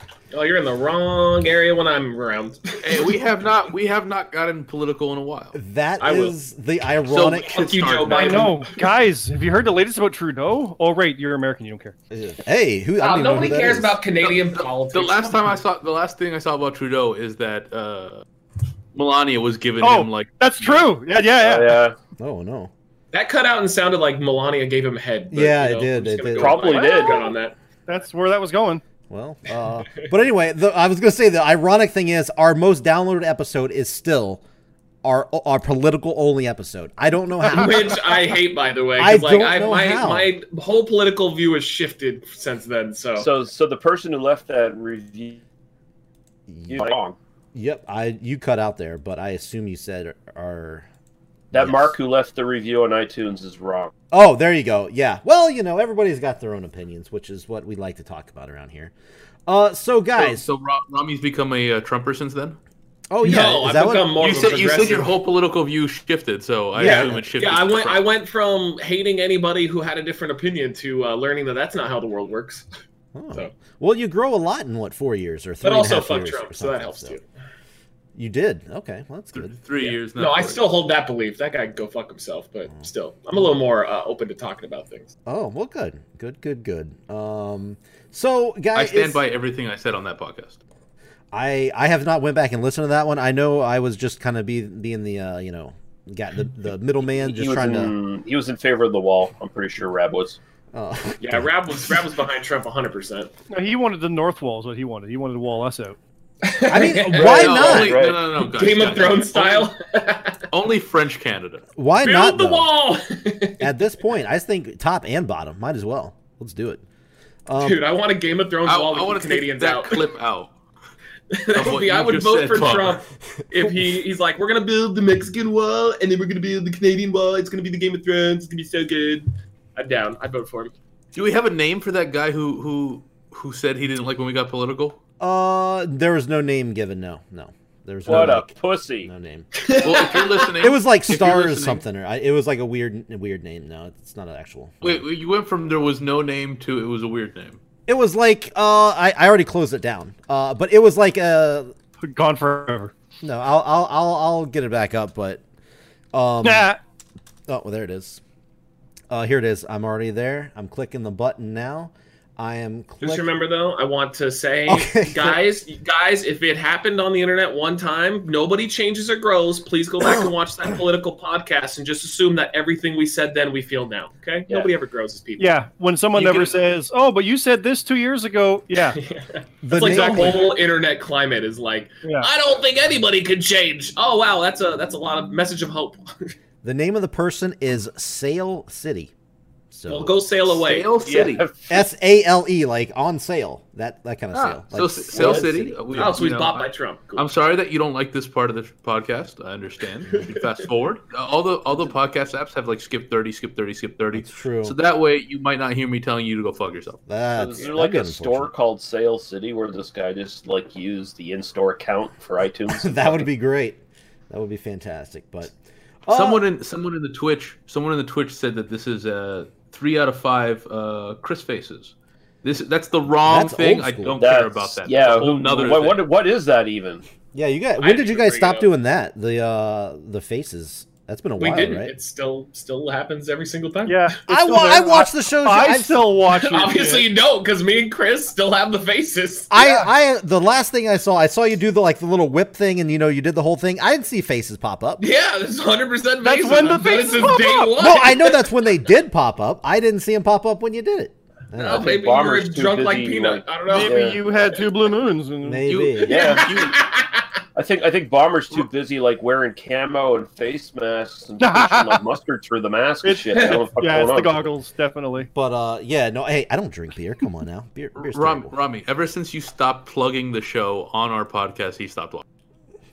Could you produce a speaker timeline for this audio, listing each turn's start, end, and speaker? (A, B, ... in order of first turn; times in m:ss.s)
0:00.3-0:03.1 A
0:02.8-0:05.6 B
0:05.5-0:07.6 C
0:06.0-0:06.3 A
0:07.1-0:08.5 B
0:07.5-0:08.6 A
0:08.1-0:11.9 D
0:12.1-0:14.0 C
0:13.0-0:15.5 A
0:14.2-0:18.2 B
0:18.9-0:20.9 B
0:19.8-0:21.8 D
0:21.4-0:22.0 E
0:22.2-0:22.7 C
0:23.1-0:27.5 A
0:25.3-0:26.8 C
0:26.3-0:27.3 E
0:27.9-0:28.8 D
0:29.1-0:34.4 C
0:35.0-0:38.0 C
0:37.5-0:43.3 A
0:39.0-0:40.3 C
0:43.2-0:45.4 E
0:46.5-0:46.9 C
0:46.7-0:47.2 E
0:47.5-0:50.9 C
0:51.5-0:53.9 E
0:51.5-0:51.9 C
0:54.1-0:58.9 C
0:59.5-1:00.4 C
1:00.2-1:02.6 B
1:03.1-1:04.6 C
1:03.2-1:05.1 A
1:04.2-1:08.0 B
1:06.7-1:07.2 C
1:06.8-1:12.6 A
1:13.1-1:17.2 C
1:15.6-1:17.2 A
1:18.2-1:19.6 C
1:19.3-1:20.7 B
1:20.2-1:25.1 A
1:25.2-1:29.2 C
1:28.7-1:30.6 B
1:31.3-1:37.9 C
1:37.1-1:40.4 E
1:40.7-1:41.5 C
1:41.2-1:43.3 A
1:43.5-1:46.0 D
1:46.4-1:47.8 A
1:46.7-1:48.0 C
1:47.1-1:48.2 E
1:47.2-1:49.7 B
1:48.4-1:50.4 A
1:50.5-1:51.6 B
1:51.8-1:52.7 C
1:52.0-1:53.7 A
1:53.6-1:56.8 C
1:57.5-1:57.8 C
1:57.6-2:00.0 A
1:58.6-2:00.5 B
2:01.3-2:10.7 A
2:01.5-2:03.0 B
2:11.1-2:15.0 B
2:15.2-2:19.5 C
2:18.0-2:19.1 E
2:19.6-2:20.5 A
2:19.8-2:21.8 B
2:20.6-2:25.0 C
2:24.8-2:27.6 B
2:27.9-2:31.7 C
2:32.0-2:32.9 D
2:33.2-2:35.4 C
2:36.1-2:36.7 C
2:36.4-2:36.8 D
2:37.5-2:38.2 C
2:39.1-2:43.3 C
2:43.0-2:55.5 A
2:44.7-2:45.4 C
2:55.4-2:59.0 D
2:56.2-2:56.5 B
2:58.9-3:06.3 A
2:59.6-3:00.5 C
2:59.8-3:00.3 D
3:02.0-3:02.3 D
3:06.6-3:09.1 C
3:09.7-3:10.1 C
3:09.9-3:10.9 A
3:10.6-3:11.4 B
3:11.0-3:11.8 E
3:11.7-3:16.1 C
3:14.3-3:27.0 B
3:15.1-3:15.7 E
3:15.9-3:17.2 A
3:24.1-3:24.8 C
3:27.1-3:28.5 C
3:27.4-3:33.2 E
3:32.7-3:35.5 C
3:36.0-3:36.4 C
3:36.1-3:46.0 B
3:43.2-3:44.2 C
3:44.2-3:47.0 E
3:47.3-3:51.9 C
3:47.8-3:48.7 A
3:51.4-3:54.0 A
3:53.8-3:57.1 D
3:54.3-3:56.0 C
3:56.3-3:59.6 A
3:59.5-4:05.0 C
3:59.6-3:59.8 D
4:05.0-4:08.4 A
4:06.2-4:07.8 D
4:07.8-4:12.0 C
4:11.6-4:14.5 A
4:11.6-4:14.2 E
4:13.7-4:15.7 D
4:15.4-4:16.2 C
4:15.6-4:16.8 B
4:16.0-4:17.2 A
4:16.1-4:16.5 E
4:17.5-4:24.5 E
4:21.4-4:22.0 D
4:23.0-4:25.3 D
4:23.3-4:23.6 A
4:25.3-4:28.5 C
4:27.9-4:32.2 B